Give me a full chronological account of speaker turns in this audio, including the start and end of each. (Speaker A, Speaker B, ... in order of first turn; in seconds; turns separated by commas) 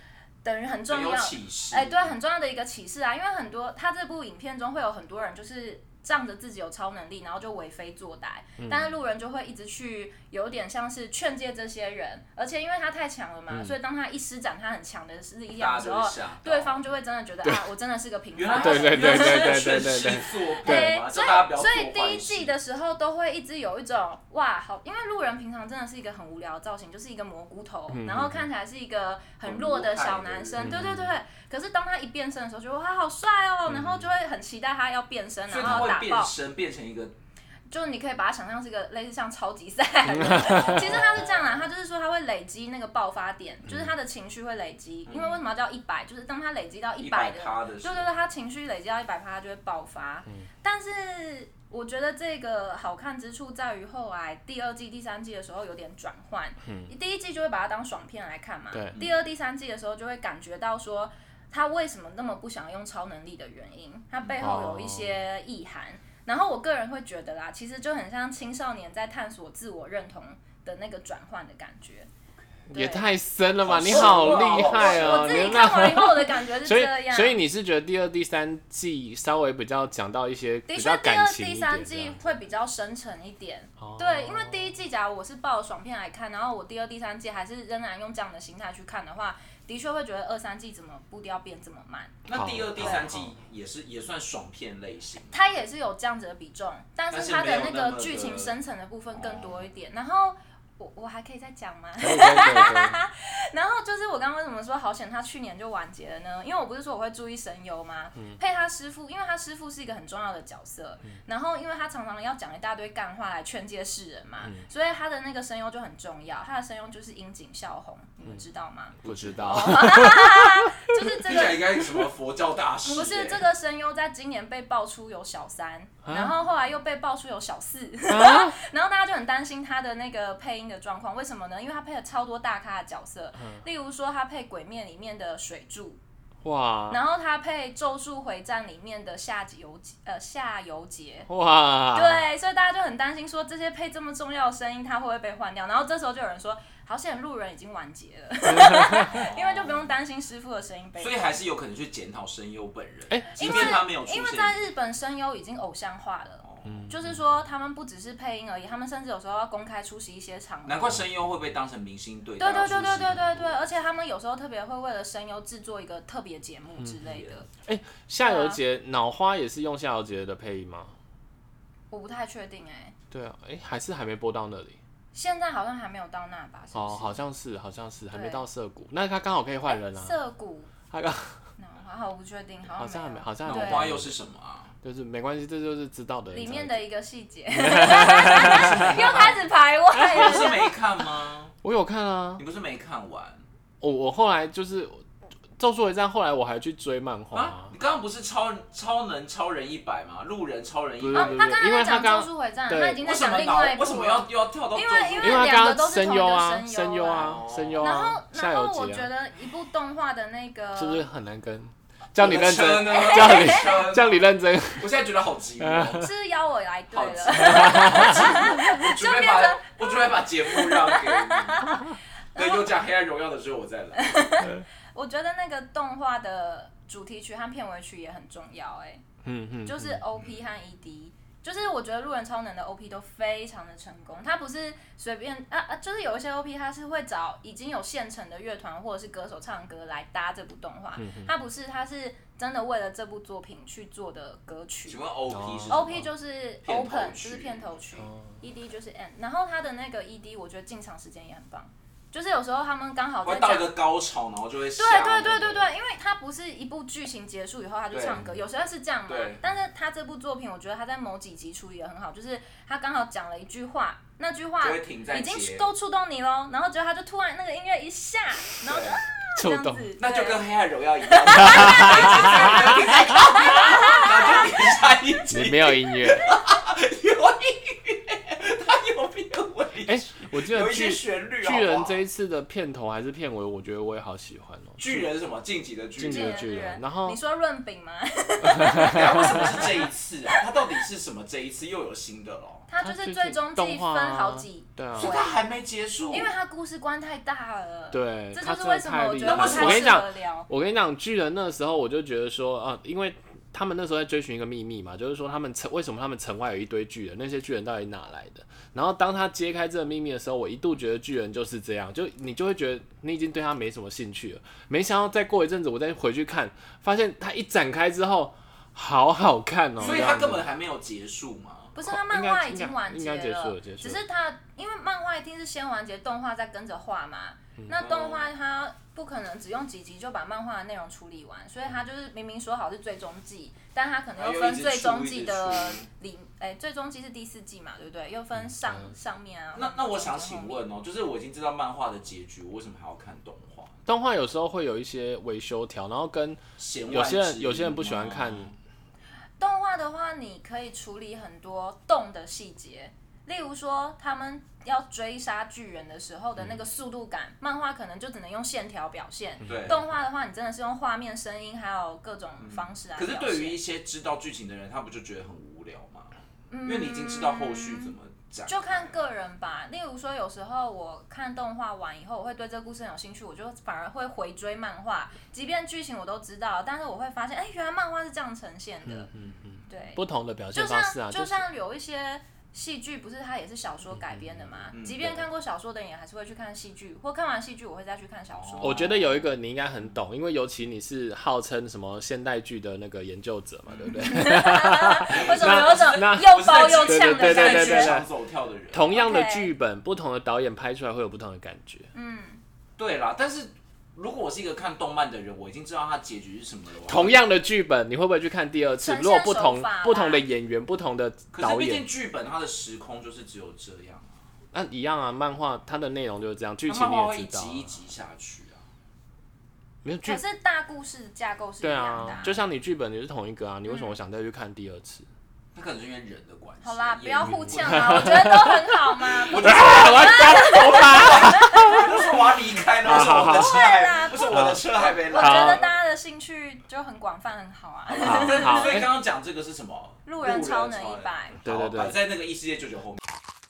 Speaker A: 0.4-36.3, Speaker B: 0.9-2.1, Speaker C: 8.6-8.9, Speaker C: 13.5-13.8, Speaker B: 15.6-16.9, Speaker B: 18.4-22.6, Speaker C: 18.6-21.0, Speaker C: 27.9-28.5, Speaker B: 29.4-30.8, Speaker C: 30.6-31.2, Speaker C: 33.7-34.1, Speaker B: 35.5-37.1, Speaker A: 37.7-72.1, Speaker C: 40.1-41.1, Speaker B: 40.6-41.6, Speaker B: 45.1-45.4, Speaker B: 47.0-48.2, Speaker C: 56.6-56.9, Speaker C: 58.7-59.0, Speaker C: 64.4-65.2, Speaker C: 72.7-82.4, Speaker A: 72.7-73.1, Speaker B: 73.6-75.5, Speaker A: 73.8-77.4, Speaker A: 80.7-92.2, Speaker C: 83.8-84.8, Speaker B: 92.3-95.6, Speaker C: 92.3-93.3, Speaker A: 95.3-121.8, Speaker B: 97.1-98.5, Speaker B: 99.1-99.7, Speaker C: 102.0-103.0, Speaker C: 119.0-121.0, Speaker B: 121.2-123.5, Speaker A: 122.9-136.0, Speaker C: 126.0-126.3, Speaker C: 128.1-128.6, Speaker C: 136.4-137.0, Speaker A: 136.9-141.3, Speaker C: 141.3-142.3, Speaker A: 141.9-151.3, Speaker C: 148.5-149.3, Speaker B: 149.1-149.9, Speaker B: 151.0-154.6, Speaker C: 153.1-153.8, Speaker A: 153.4-160.9, Speaker B: 156.4-156.9, Speaker C: 156.7-157.2, Speaker B: 160.7-163.6, Speaker A: 162.4-167.5, Speaker C: 162.7-163.4, Speaker B: 167.1-167.4, Speaker C: 167.6-170.9, Speaker A: 168.2-168.6, Speaker A: 171.9-172.9, Speaker C: 173.1-174.8, Speaker A: 175.1-177.2, Speaker C: 176.7-180.2, Speaker A: 178.1-178.5, Speaker A: 179.7-180.7, Speaker C: 180.9-181.4, Speaker A: 181.6-183.9, Speaker C: 182.8-184.2, Speaker B: 183.4-184.8, Speaker C: 184.8-186.8, Speaker A: 186.3-190.8, Speaker C: 187.5-189.3, Speaker B: 188.3-189.4, Speaker C: 189.9-190.6, Speaker B: 190.0-191.5, Speaker C: 191.6-192.4, Speaker B: 192.4-193.4, Speaker C: 193.8-195.0, Speaker C: 195.6-197.7, Speaker B: 197.3-201.4, Speaker C: 201.0-203.0, Speaker A: 201.1-211.0, Speaker B: 203.0-205.5, Speaker C: 205.2-209.1, Speaker B: 207.0-207.9, Speaker C: 210.8-214.9, Speaker B: 212.2-214.2, Speaker A: 212.9-213.9, Speaker B: 214.8-216.1, Speaker C: 215.6-216.1, Speaker A: 216.0-221.4, Speaker B: 216.9-224.2, Speaker C: 217.4-218.3, Speaker A: 222.3-222.7, Speaker A: 224.0-229.0, Speaker C: 229.2-230.1, Speaker A: 229.7-245.0, Speaker B: 230.2-230.4, Speaker C: 241.0-241.3, Speaker B: 244.9-246.0, Speaker C: 245.3-246.1, Speaker A: 245.7-253.7, Speaker B: 246.7-247.7, Speaker C: 248.0-248.4, Speaker B: 253.2-255.7, Speaker A: 254.8-270.4, Speaker B: 257.9-258.3, Speaker B: 259.1-259.7, Speaker B: 264.6-265.7, Speaker B: 268.6-269.0, Speaker C: 269.4-269.9, Speaker B: 270.0-282.0, Speaker A: 271.1-274.4, Speaker C: 271.4-273.4, Speaker C: 275.3-276.3, Speaker C: 279.9-285.1, Speaker B: 284.8-286.4, Speaker C: 286.0-287.2, Speaker A: 286.1-289.9, Speaker C: 288.4-289.4, Speaker B: 288.8-292.7, Speaker A: 292.7-295.4, Speaker C: 292.8-295.1, Speaker B: 295.0-296.3, Speaker A: 296.1-300.5, Speaker C: 297.9-320.5, Speaker B: 299.2-299.9, Speaker B: 319.8-321.7, Speaker A: 321.8-340.6, Speaker C: 321.9-324.0, Speaker B: 327.7-328.3, Speaker B: 334.2-335.9, Speaker C: 338.6-338.9, Speaker B: 339.5-343.8, Speaker C: 343.9-348.5, Speaker B: 346.6-348.6, Speaker A: 349.4-363.6, Speaker C: 359.4-359.7, Speaker B: 359.4-359.9, Speaker B: 362.4-369.1, Speaker A: 366.5-367.9, Speaker A: 368.5-379.1, Speaker C: 378.9-381.4, Speaker A: 379.7-380.0, Speaker A: 380.5-388.9, Speaker C: 383.9-385.2, Speaker B: 384.7-385.1, Speaker B: 388.3-388.9, Speaker C: 388.6-398.1, Speaker B: 393.7-394.0, Speaker A: 393.9-398.0, Speaker B: 395.1-399.0, Speaker C: 398.7-401.9, Speaker A: 398.9-399.5, Speaker A: 401.9-402.4, Speaker B: 402.8-407.2, Speaker C: 406.9-411.9, Speaker A: 408.8-410.2, Speaker B: 411.3-414.3, Speaker C: 414.5-417.7, Speaker B: 416.7-418.6, Speaker C: 419.8-420.2, Speaker A: 420.1-422.4, Speaker C: 421.6-425.1, Speaker A: 423.6-424.0, Speaker B: 425.6-428.1, Speaker A: 426.6-431.9, Speaker C: 427.2-428.6, Speaker B: 429.2-435.7, Speaker C: 429.3-431.9, Speaker C: 432.8-433.6, Speaker A: 432.9-438.7, Speaker C: 434.3-435.7, Speaker B: 437.9-443.0, Speaker C: 438.0-438.9, Speaker A: 440.1-441.4, Speaker C: 441.4-442.0